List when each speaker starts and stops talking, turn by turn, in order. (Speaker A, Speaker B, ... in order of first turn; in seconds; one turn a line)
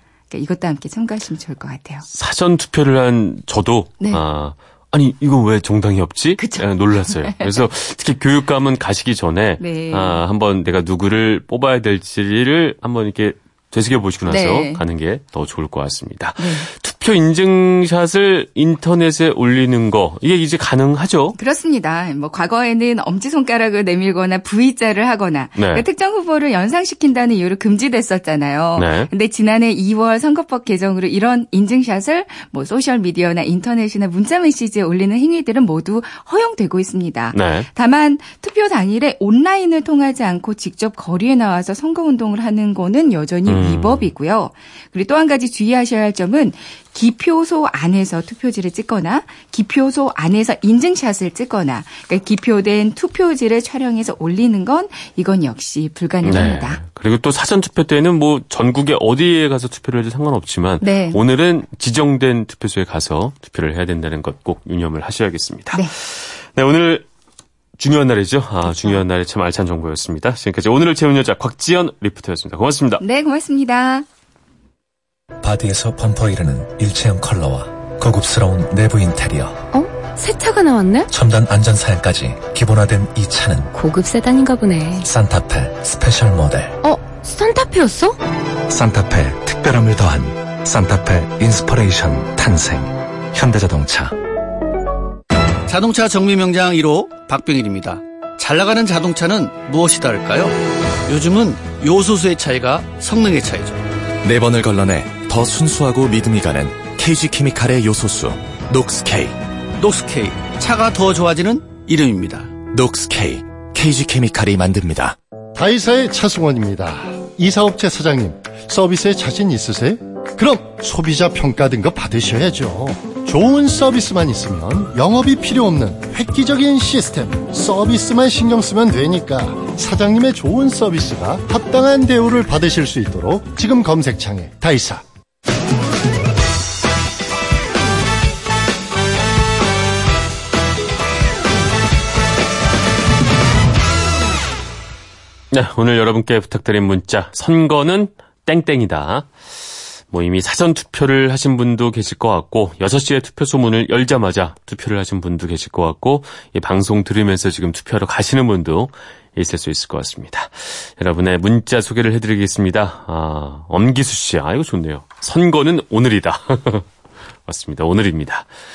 Speaker A: 0.3-2.0
Speaker B: 2.1-21.4
Speaker A: 6.4-7.5
Speaker A: 9.6-10.2
Speaker A: 14.2-14.8
Speaker A: 16.4-16.7
Speaker A: 21.4-56.8
Speaker B: 25.6-25.8
Speaker B: 28.7-29.1
Speaker B: 37.3-37.7
Speaker B: 43.5-44.1
Speaker B: 56.2-67.0
Speaker A: 60.8-61.2
Speaker B: 67.8-73.0
Speaker A: 68.7-69.0
Speaker A: 73.0-74.0
Speaker C: 75.4-79.7
Speaker D: 79.7-81.1
Speaker C: 81.1-83.7
Speaker D: 83.7-85.1
Speaker C: 85.0-86.8
Speaker D: 86.8-88.2
Speaker C: 88.7-94.1
Speaker E: 95.7-100.5
Speaker E: 101.1-103.8
Speaker C: 104.3-109.3
Speaker E: 109.8-112.5
Speaker C: 112.7-115.1
Speaker F: 115.5-135.0
Speaker B: 145.5-149.3
Speaker B: 150.1-166.8
Speaker B: 167.5-168.5